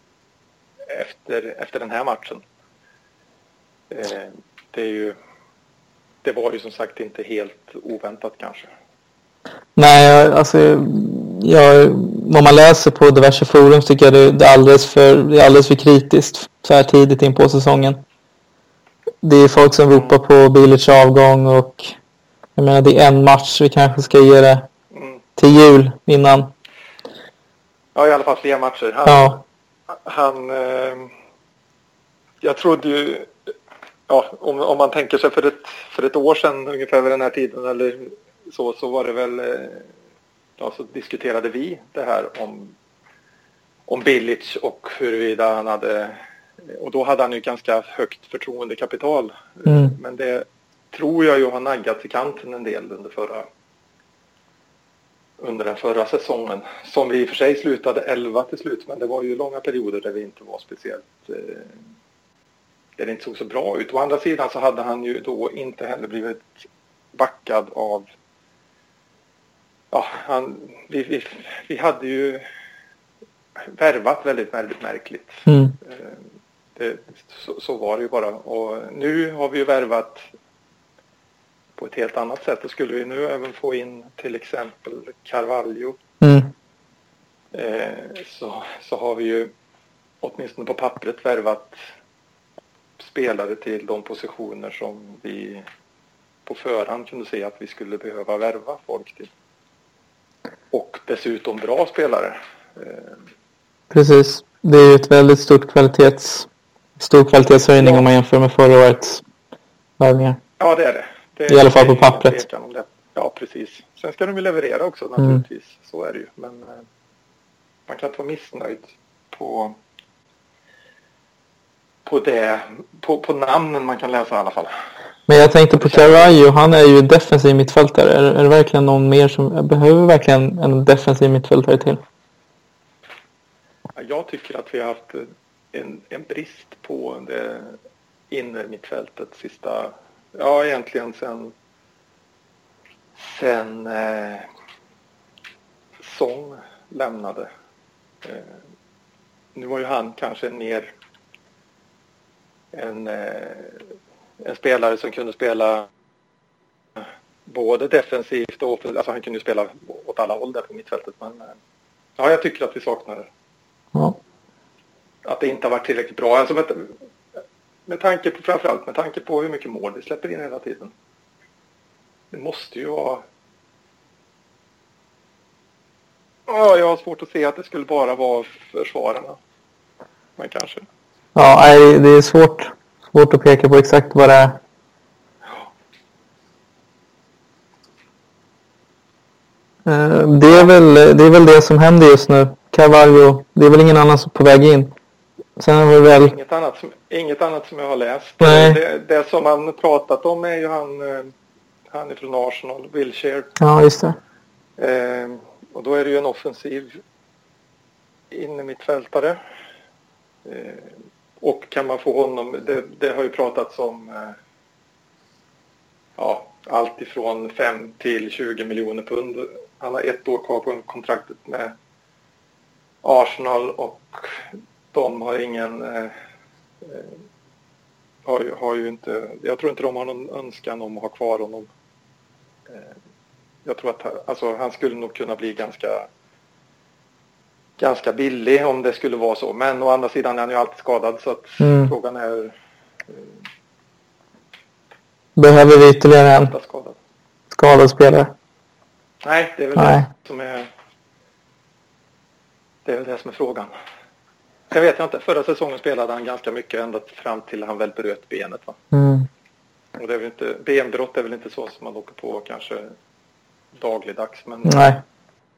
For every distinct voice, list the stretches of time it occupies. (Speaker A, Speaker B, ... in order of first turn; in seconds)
Speaker A: 0.9-2.4, 3.9-5.2, 6.2-8.7, 24.9-25.2, 27.9-31.1, 32.4-33.3, 34.1-39.9, 40.6-42.8, 43.9-46.2, 46.7-53.5, 55.4-61.8, 63.0-68.1, 69.9-72.4, 73.7-76.2, 76.8-80.2, 81.8-86.0, 87.5-89.5, 90.2-91.8, 93.0-95.6, 96.5-99.3, 100.7-103.2, 107.8-108.1, 110.6-116.8, 117.9-119.8, 122.0-124.7, 125.7-126.4, 134.0-137.8, 138.3-141.5, 143.2-144.5, 146.0-147.5, 148.2-148.6, 149.6-150.9, 152.7-153.8, 154.4-155.9, 157.0-161.5, 162.2-163.3, 165.2-166.9, 167.9-170.9, 172.3-173.2, 176.5-179.4, 180.4-180.8, 185.4-185.7, 190.5-190.7, 196.0-201.3, 201.9-203.5, 204.8-207.0, 208.3-209.4, 210.4-214.4, 216.2-221.8, 223.0-226.1, 226.8-227.1, 228.2-231.7, 233.7-236.1, 237.8-242.6, 246.4-247.0, 249.2-250.7, 252.8-253.7, 254.7-258.8, 260.0-262.9, 263.8-264.9
Speaker B: 9.8-18.0, 19.2-21.9, 22.6-24.6, 25.4-26.5, 29.1-29.4, 49.7-50.0, 75.5-75.8, 86.2-86.5, 103.9-106.5, 107.0-109.2, 110.0-110.4, 111.5-112.4, 125.3-132.0, 181.3-184.6, 189.9-194.9, 195.6-196.3, 198.4-198.8, 203.6-204.2, 241.6-241.9, 245.4-246.5, 247.5-248.3, 249.8-250.1, 258.9-259.3, 264.7-265.0